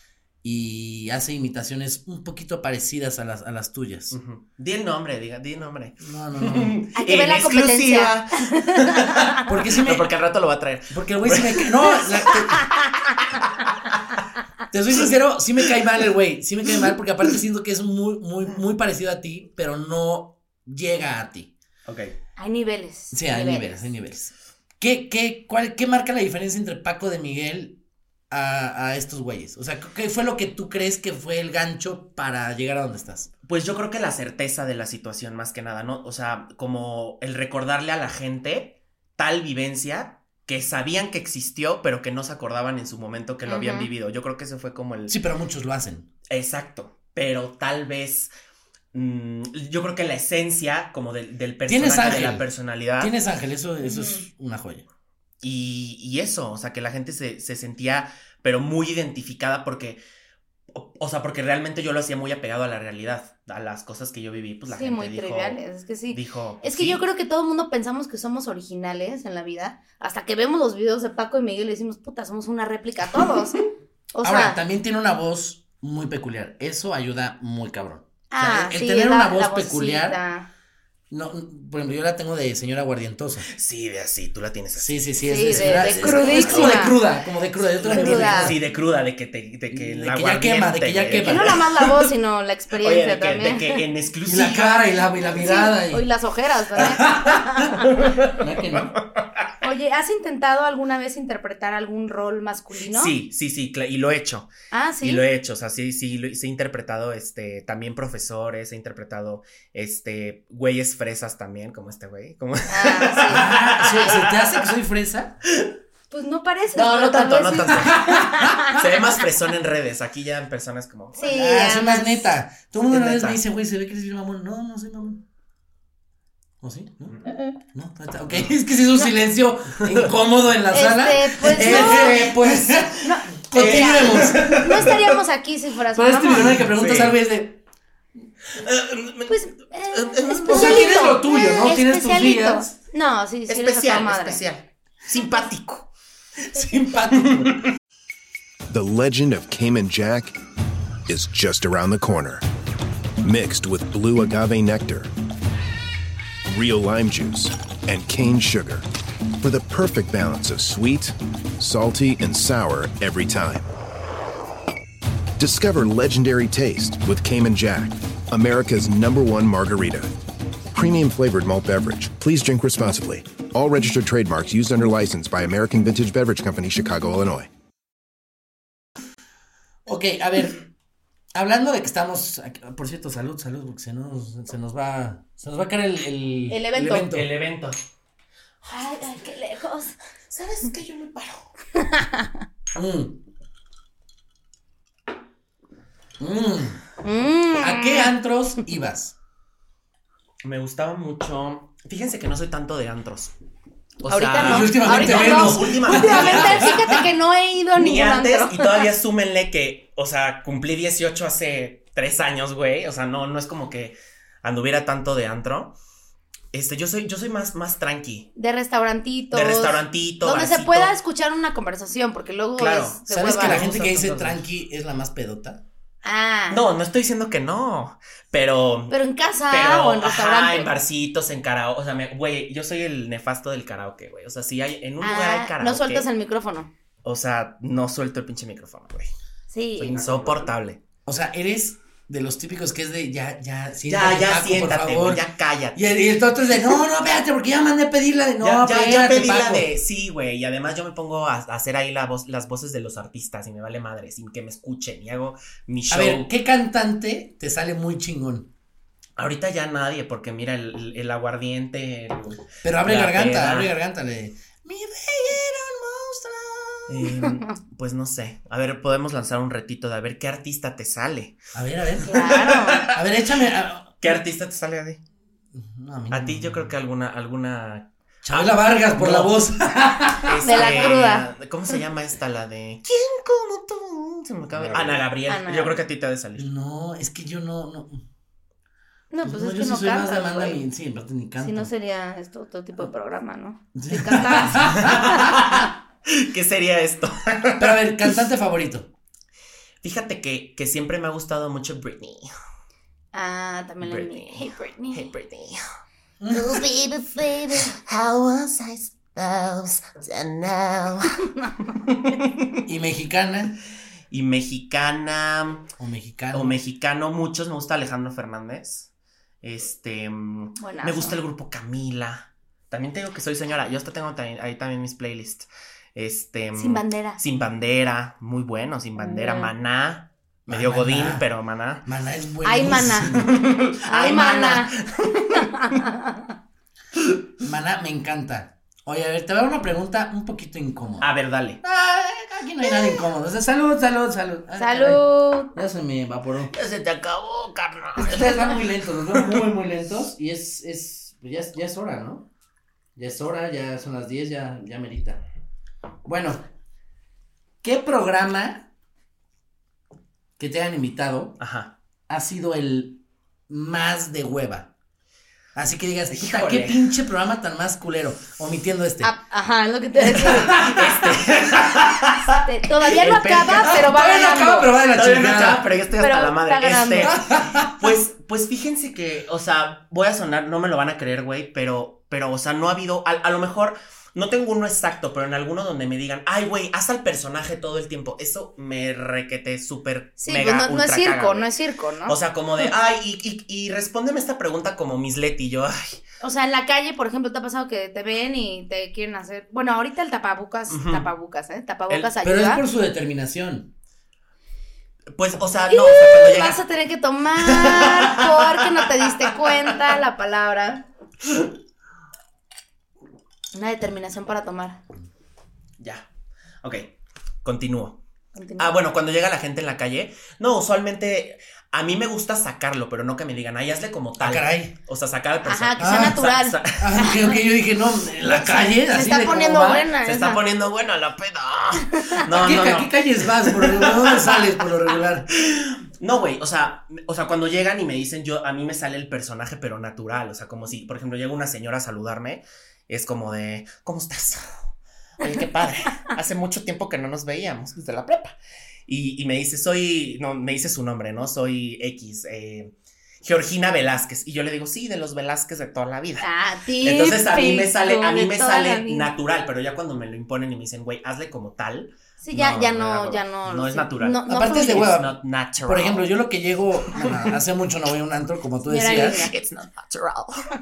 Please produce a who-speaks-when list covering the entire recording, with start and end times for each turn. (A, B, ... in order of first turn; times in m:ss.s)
0:00.4-0:04.2 A
0:04.1-0:12.2 B
0:06.0-0:06.8 A
0:07.0-0:09.4 C
0:09.4-0:10.1 A
0:10.9-0:12.7 A
0:12.6-0:13.2 C
0:13.4-0:13.9 B
0:14.7-0:21.5 A
0:21.9-0:22.1 B
0:22.4-0:23.9 C
0:23.1-0:27.8 A
0:28.3-0:33.3 A
0:33.5-0:45.2 B
0:43.5-0:43.9 C
0:45.1-0:46.1 A
0:46.3-0:48.3 B
0:48.9-0:53.1 B
0:51.7-0:54.8 A
0:53.8-0:54.2 C
0:55.4-1:00.0 B
1:00.7-1:07.0 B
1:04.7-1:13.6 C
1:14.1-1:14.6 C
1:14.2-1:20.2 A
1:18.3-1:20.5 C
1:21.1-1:23.5 A
1:23.5-1:27.0 B
1:24.8-1:28.6 A
1:25.2-1:27.0 C
1:27.8-1:31.9 B
1:27.9-1:28.6 C
1:29.7-1:31.6 A
1:31.2-1:33.8 C
1:32.8-1:34.9 B
1:34.2-1:36.1 A
1:35.2-1:37.8 C
1:36.8-1:39.0 A
1:37.8-1:39.5 B
1:39.6-1:43.1 C
1:42.9-1:44.5 B
1:44.7-1:45.3 C
1:45.0-1:54.7 B
1:52.7-1:53.5 C
1:53.3-1:55.4 A
1:56.1-1:58.8 C
1:56.8-1:58.0 B
1:57.9-1:58.6 A
1:58.6-2:01.2 B
2:01.2-2:02.3 C
2:01.2-2:05.2 A
2:02.9-2:03.4 B
2:06.6-2:07.2 A
2:07.7-2:14.9 A
2:10.7-2:12.2 C
2:11.5-2:13.0 B
2:13.0-2:16.6 C
2:13.5-2:15.0 B
2:16.0-2:17.6 A
2:16.4-2:17.2 B
2:18.5-2:19.4 B
2:19.3-2:24.4 C
2:19.9-2:21.0 B
2:20.4-2:22.8 A
2:23.5-2:25.9 B
2:26.4-2:27.6 A
2:27.2-2:27.6 B
2:28.7-2:30.4 D
2:31.1-2:32.4 D
2:33.2-2:35.1 D
2:36.5-2:38.8 D
2:39.4-2:43.7 D
2:45.4-2:50.1 D
2:50.7-2:57.5 D
2:59.9-3:00.6 A
3:01.3-3:07.3 A
3:06.5-3:07.1 C
3:07.0-3:07.8 B
3:08.7-3:09.9 C
3:10.3-3:11.5 B
3:11.8-3:12.3 C
3:12.8-3:13.2 A
3:16.2-3:16.8 A
3:17.0-3:18.1 C
3:17.5-3:19.2 A
3:20.4-3:23.3 B
3:24.0-3:26.8 B
3:24.1-3:28.8 C
3:24.4-3:27.0 A
3:27.8-3:35.8 B
3:36.5-3:38.3 B
3:38.4-3:43.6 C
3:39.3-3:40.9 B
3:42.6-3:44.4 B
3:43.1-3:45.6 A
3:46.0-3:46.6 C
3:46.5-3:49.0 B
3:48.9-3:50.7 C
3:49.5-3:56.1 B
3:55.0-3:56.7 C
3:57.0-3:59.1 B
3:59.5-4:00.0 C
3:59.8-4:00.8 B
4:01.1-4:09.7 A
4:03.9-4:05.9 B
4:08.4-4:16.3 B
4:15.9-4:18.5 A
4:19.2-4:23.7 B
4:22.6-4:27.1 A
4:26.9-4:31.4 B
4:27.3-4:27.5 C
4:31.5-4:34.2 A
4:32.1-4:32.9 C
4:32.1-4:33.0 B
4:34.0-4:35.0 B
4:35.5-4:36.7 A
4:36.1-4:39.4 B
4:38.2-4:40.6 A
4:40.2-4:46.5 B
4:40.4-4:41.3 C
4:45.2-4:45.8 C
4:46.4-4:48.0 A
4:49.1-4:50.6 C
4:49.2-4:51.7 A
4:51.4-4:55.2 C
4:53.8-4:55.4 A
4:54.7-4:57.8 B
4:57.6-4:58.9 A
4:59.8-5:02.3 B
5:03.1-5:05.1 C
5:03.8-5:05.6 B
5:06.2-5:06.6 A
5:06.3-5:11.2 B
5:07.1-5:07.7 C
5:11.3-5:11.6 C
5:11.8-5:12.6 B
5:12.6-5:13.6 A
5:14.1-5:15.7 B
5:15.8-5:16.6 A
5:16.3-5:18.9 B
5:19.4-5:31.8 B
5:20.6-5:21.2 C
5:26.6-5:27.2 C
5:29.0-5:29.5 C
5:30.5-5:31.2 A
5:31.8-5:33.3 A
5:32.4-5:33.2 C
5:33.1-5:35.5 B
5:33.8-5:34.7 C
5:35.3-5:36.3 C
5:37.4-5:41.1 A
5:41.0-5:41.6 B
5:41.6-5:46.5 A
5:44.6-5:45.5 C
5:46.5-5:49.4 B
5:48.0-5:52.3 A
5:53.0-5:55.2 A
5:56.0-5:56.4 A
5:57.6-5:58.7 A
6:00.4-6:01.4 A
6:01.4-6:01.7 B
6:02.1-6:04.7 A
6:05.6-6:09.1 A
6:06.1-6:06.9 B
6:09.0-6:10.6 C
6:10.1-6:11.6 A
6:10.5-6:12.4 B
6:12.4-6:14.7 C
6:12.9-6:13.8 B
6:13.0-6:15.7 A
6:14.9-6:31.5 B
6:16.0-6:17.1 C
6:17.0-6:17.9 A
6:30.2-6:32.2 C
6:32.1-6:36.0 B
6:36.2-6:42.6 C
6:40.7-6:41.1 B
6:42.2-6:43.7 A
6:45.2-6:46.6 B
6:45.7-6:50.8 C
6:47.5-6:48.8 B
6:53.5-6:54.8 C
6:55.8-6:56.1 B
6:56.6-6:56.9 B
6:57.4-6:58.0 B
6:58.4-6:58.7 C
6:58.6-7:07.1 B
7:04.2-7:04.8 A
7:05.4-7:07.3 C
7:05.8-7:09.9 A
7:08.3-7:10.4 C
7:10.0-7:14.5 B
7:11.9-7:12.2 C
7:12.3-7:15.3 A
7:15.3-7:24.7 B
7:25.2-7:28.4 B
7:28.9-7:36.3 B
7:36.2-7:39.1 C
7:36.8-7:46.1 B
7:42.2-7:44.9 C
7:44.3-7:49.3 A
7:46.9-7:47.4 B
7:48.7-7:49.3 C
7:49.0-7:50.5 B